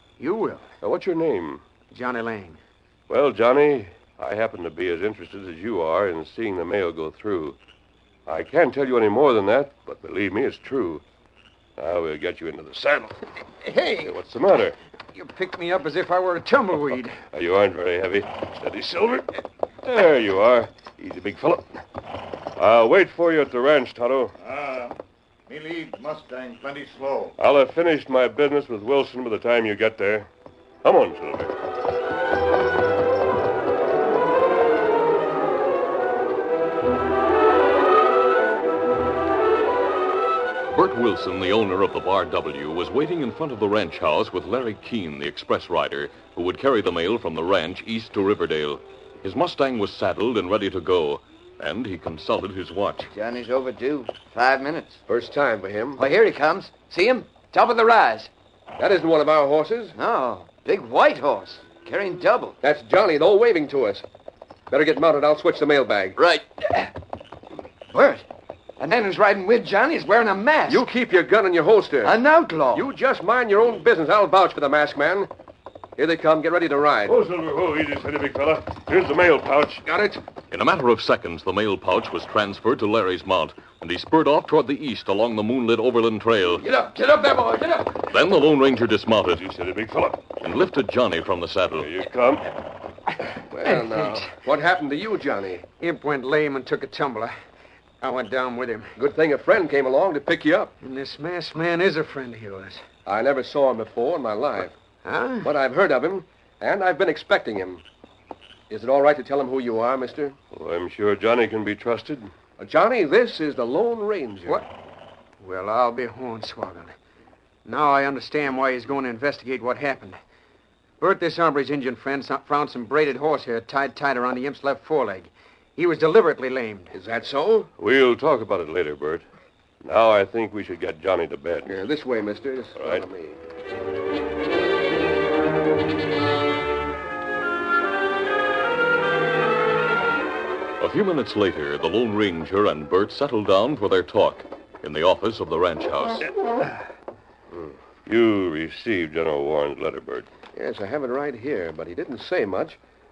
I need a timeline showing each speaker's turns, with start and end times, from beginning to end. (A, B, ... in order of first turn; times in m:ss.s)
0:00.2-0:00.6 A
0:00.8-0:01.6 B
0:01.9-0:02.6 A
0:03.1-0:07.6 B
0:08.3-0:11.0 B
0:11.8-0:13.2 B
0:13.6-0:14.1 A
0:14.0-0:14.8 B
0:15.1-0:17.2 A
0:17.3-0:21.7 B
0:22.6-0:24.3 B
0:24.4-0:27.3 C
0:27.4-0:30.3 B
0:30.8-0:31.5 B
0:40.7-0:53.1 D
0:53.1-0:55.0 E
0:55.1-0:56.0 F
0:56.0-0:58.3 E
0:58.8-1:00.0 F
0:59.9-1:02.6 E
1:02.6-1:04.0 F
1:04.7-1:06.2 F
1:06.2-1:06.9 E
1:07.9-1:08.2 E
1:08.8-1:10.8 E
1:10.7-1:12.2 F
1:12.0-1:12.8 E
1:12.7-1:15.3 F
1:16.0-1:17.2 F
1:17.1-1:19.8 B
1:19.8-1:20.2 F
1:20.5-1:26.6 D
1:26.6-1:27.8 F
1:28.1-1:29.4 D
1:29.2-1:30.2 B
1:30.4-1:31.9 D
1:31.8-1:32.5 B
1:33.5-1:35.6 F
1:35.8-1:37.3 A
1:38.0-1:38.9 A
1:39.0-1:40.7 F
1:40.8-1:42.8 A
1:43.1-1:44.8 F
1:45.0-1:45.5 A
1:45.4-1:47.8 F
1:48.7-1:50.4 F
1:50.5-1:52.3 B
1:52.6-1:54.6 F
1:55.4-1:56.9 A
1:57.6-2:00.2 A
2:01.0-2:06.9 A
2:06.9-2:07.7 F
2:07.8-2:09.2 B
2:09.8-2:11.7 B
2:11.6-2:13.4 F
2:12.8-2:13.0 B
2:20.8-2:26.2 D
2:28.1-2:30.3 B
2:30.6-2:32.8 F